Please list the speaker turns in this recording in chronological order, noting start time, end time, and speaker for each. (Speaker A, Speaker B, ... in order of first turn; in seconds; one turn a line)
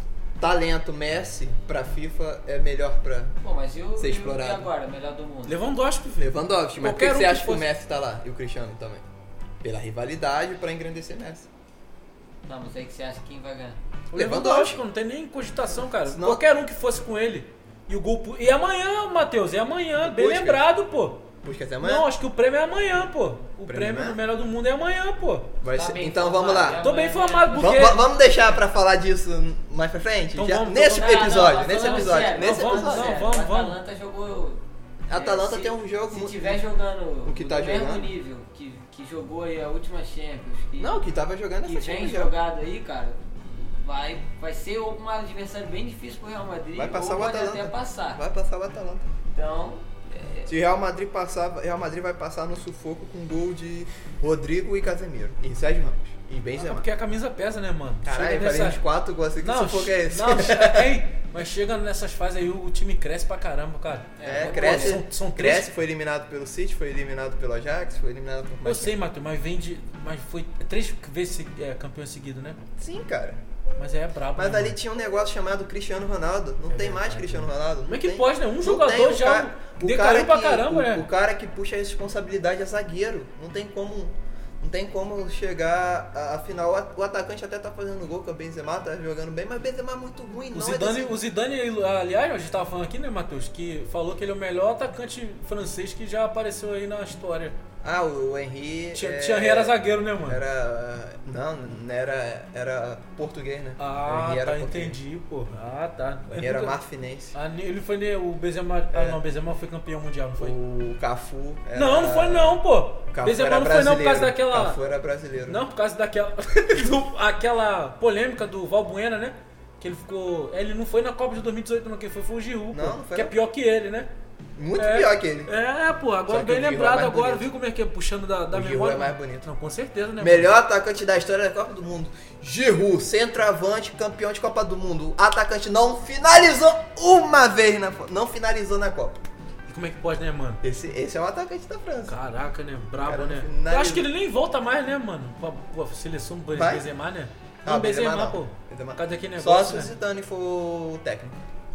Speaker A: 0.4-3.3
Speaker B: 3.4-5.6
Speaker A: 4.0-4.7
Speaker C: 5.5-7.7
Speaker A: 6.2-9.0
Speaker A: 9.6-11.5
Speaker B: 12.5-13.8
Speaker C: 14.1-21.2
Speaker A: 14.1-14.8
Speaker A: 16.1-16.4
Speaker A: 20.0-20.6
Speaker A: 21.4-22.1
Speaker C: 21.8-25.5
Speaker A: 23.6-24.2
Speaker A: 25.6-26.8
Speaker B: 25.7-27.8
Speaker C: 26.8-28.0
Speaker A: 27.5-33.2
Speaker C: 30.4-33.8
Speaker B: 30.8-34.6
Speaker A: 35.1-36.6
Speaker B: 35.1-41.0
Speaker A: 37.2-38.1
Speaker A: 40.8-42.3
Speaker B: 41.6-48.2
Speaker A: 46.8-49.1
Speaker B: 49.3-50.5
Speaker A: 50.5-56.9
Speaker C: 56.6-58.8
Speaker A: 58.0-61.0
Speaker C: 59.4-65.7
Speaker B: 64.2-65.0
Speaker A: 64.2-68.9
Speaker C: 68.6-72.6
Speaker A: 72.8-73.4
Speaker C: 73.8-74.8
Speaker A: 74.3-91.1
Speaker C: 76.7-81.0
Speaker C: 90.5-97.6
Speaker A: 97.8-105.0
Speaker C: 98.9-100.4
Speaker C: 103.8-106.8
Speaker A: 106.3-107.3
Speaker C: 107.3-110.6
Speaker A: 108.9-109.2
Speaker A: 110.4-115.6
Speaker C: 111.7-114.8
Speaker C: 115.5-124.1
Speaker A: 122.7-123.3
Speaker A: 124.5-125.5
Speaker C: 124.8-130.5
Speaker A: 126.3-127.5
Speaker A: 128.5-129.5
Speaker A: 130.2-139.2
Speaker C: 139.7-140.6
Speaker A: 140.6-142.2
Speaker C: 142.1-149.9
Speaker A: 143.0-144.1
Speaker A: 146.5-146.8
Speaker A: 147.6-151.4